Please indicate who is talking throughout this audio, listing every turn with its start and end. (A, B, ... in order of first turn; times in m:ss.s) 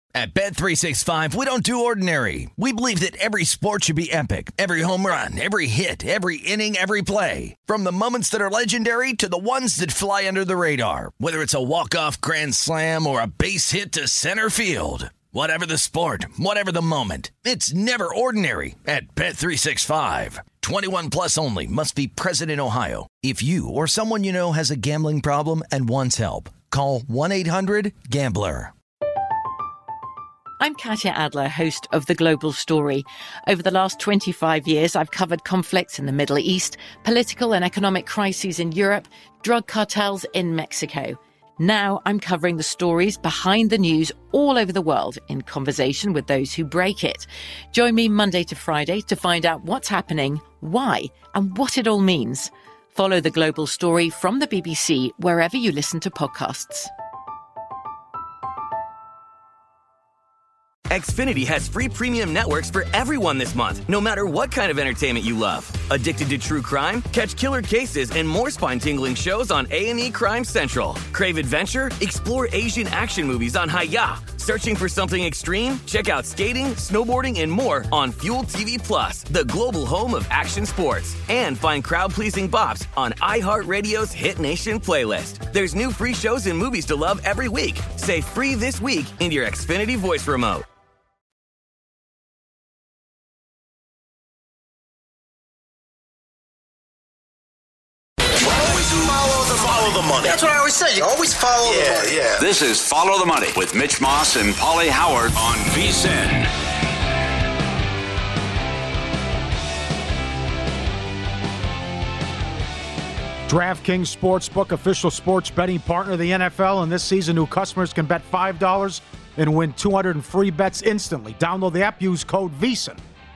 0:00.2-0:28.7 A
0:30.6-0:56.9 B
1:00.9-1:30.6 C
1:38.4-1:42.5 D
1:41.6-1:46.5 E
1:53.5-2:03.0 F